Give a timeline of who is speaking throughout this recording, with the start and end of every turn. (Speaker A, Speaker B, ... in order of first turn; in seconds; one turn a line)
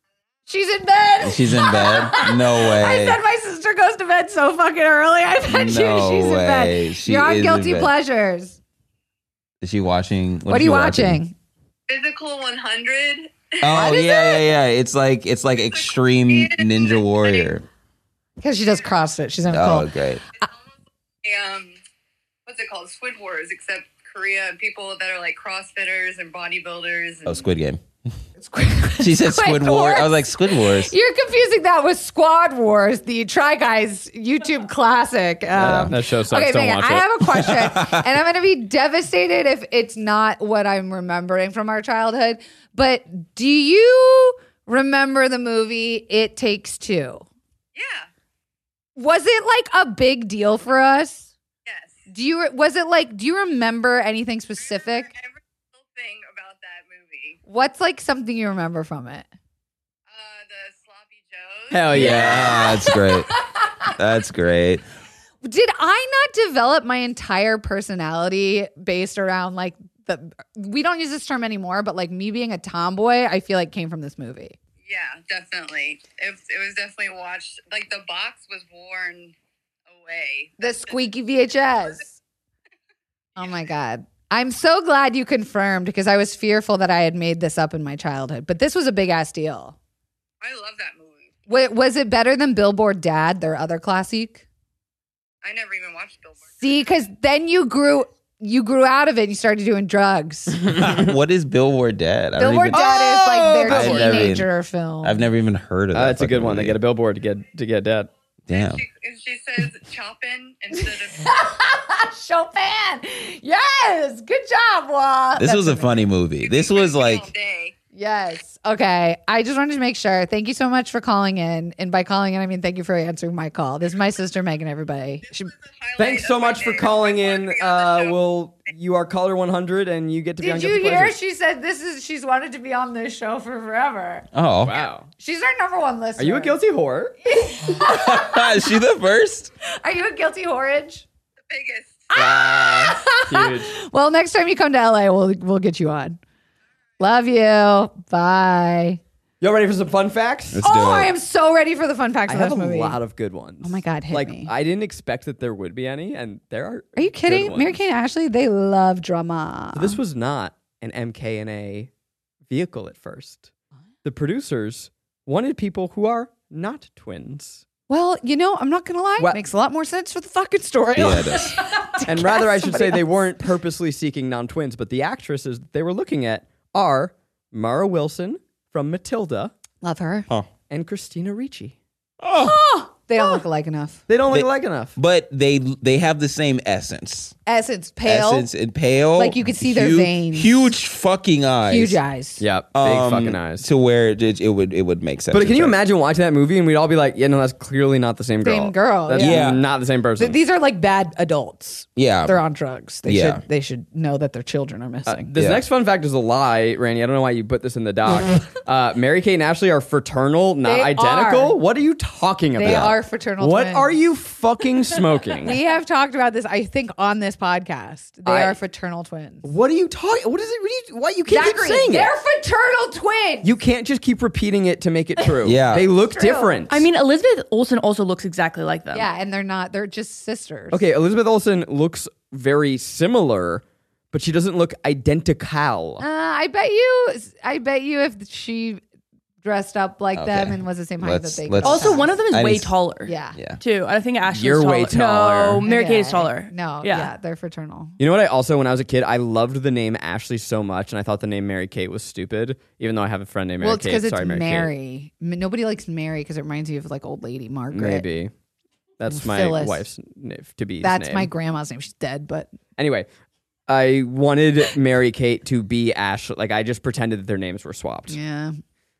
Speaker A: 0.5-8.6
Speaker B: 1.2-3.2
Speaker B: 5.5-7.9
Speaker B: 9.6-11.2
Speaker A: 10.5-11.3
Speaker C: 11.9-14.1
Speaker B: 13.6-17.6
Speaker A: 13.7-14.4
Speaker C: 15.7-17.6
Speaker A: 18.4-19.9
Speaker B: 19.5-20.2
Speaker C: 21.2-21.8
Speaker C: 22.4-27.5
Speaker B: 27.2-27.8
Speaker A: 28.4-47.2
Speaker B: 29.0-30.9
Speaker D: 35.5-37.0
Speaker B: 35.6-35.9
Speaker B: 37.3-38.0
Speaker C: 47.7-48.1
Speaker A: 49.0-51.3
Speaker C: 51.6-52.0
Speaker A: 52.1-55.1
Speaker C: 54.7-57.4
Speaker A: 57.5-59.3
Speaker C: 60.1-62.5
Speaker D: 61.7-62.6
Speaker B: 61.9-63.3
Speaker A: 62.4-63.7
Speaker B: 64.0-64.8
Speaker A: 65.4-74.6
Speaker C: 74.8-79.3
Speaker C: 79.9-81.0
Speaker A: 80.6-82.1
Speaker A: 83.4-89.8
Speaker C: 90.4-91.3
Speaker A: 91.5-94.4
Speaker C: 95.4-96.8
Speaker A: 96.6-100.7
Speaker B: 100.6-102.9
Speaker A: 102.4-105.2
Speaker D: 102.7-104.4
Speaker B: 103.7-104.5
Speaker B: 105.0-106.8
Speaker D: 105.9-108.1
Speaker B: 108.5-108.8
Speaker C: 108.5-111.3
Speaker A: 110.7-115.9
Speaker B: 115.4-117.3
Speaker C: 116.4-117.8
Speaker A: 117.9-125.5
Speaker C: 125.3-128.2
Speaker D: 126.0-131.1
Speaker A: 130.4-134.2
Speaker B: 134.3-134.8
Speaker D: 134.6-135.1
Speaker A: 135.2-136.5
Speaker D: 136.2-137.1
Speaker A: 137.2-138.6
Speaker B: 137.7-139.5
Speaker A: 139.8-141.1
Speaker C: 141.5-142.4
Speaker D: 142.1-143.7
Speaker A: 142.2-146.2
Speaker A: 147.0-149.0
Speaker D: 149.4-150.6
Speaker B: 150.5-151.1
Speaker A: 150.6-153.0
Speaker D: 152.3-157.8
Speaker A: 153.6-154.5
Speaker A: 157.0-160.0
Speaker D: 159.7-161.9
Speaker D: 162.5-163.5
Speaker D: 164.0-167.6
Speaker A: 167.9-173.4
Speaker B: 170.9-171.5
Speaker D: 172.1-179.5
Speaker A: 179.8-180.3
Speaker D: 180.7-181.8
Speaker B: 182.2-182.6
Speaker A: 182.4-184.0
Speaker D: 184.1-184.9
Speaker B: 184.3-187.3
Speaker A: 187.4-188.5
Speaker B: 188.0-192.0
Speaker A: 189.2-190.7
Speaker A: 191.7-192.4
Speaker D: 192.4-193.7
Speaker B: 192.7-195.8
Speaker D: 195.3-200.3
Speaker A: 198.4-199.5
Speaker B: 199.1-199.6
Speaker A: 200.2-205.3
Speaker B: 201.9-202.4
Speaker B: 203.1-203.4
Speaker D: 205.1-215.6
Speaker B: 205.3-205.6
Speaker A: 210.6-211.6
Speaker A: 212.5-214.0
Speaker A: 215.4-219.5
Speaker D: 218.2-218.6
Speaker D: 219.4-222.1
Speaker A: 221.3-223.5
Speaker D: 223.4-226.8
Speaker B: 225.4-225.9
Speaker A: 226.1-226.6
Speaker E: 226.7-229.1
Speaker A: 228.9-230.8
Speaker D: 230.7-236.0
Speaker A: 236.0-238.8
Speaker A: 239.4-242.2
Speaker B: 240.2-242.8
Speaker E: 241.6-247.1
Speaker A: 243.0-243.4
Speaker D: 244.3-245.6
Speaker A: 245.6-247.9
Speaker D: 248.0-254.7
Speaker A: 253.6-258.0
Speaker D: 257.7-258.3
Speaker D: 259.0-261.3
Speaker A: 259.1-259.8
Speaker A: 260.8-262.5
Speaker D: 262.8-263.1
Speaker D: 263.7-268.2
Speaker A: 268.1-268.6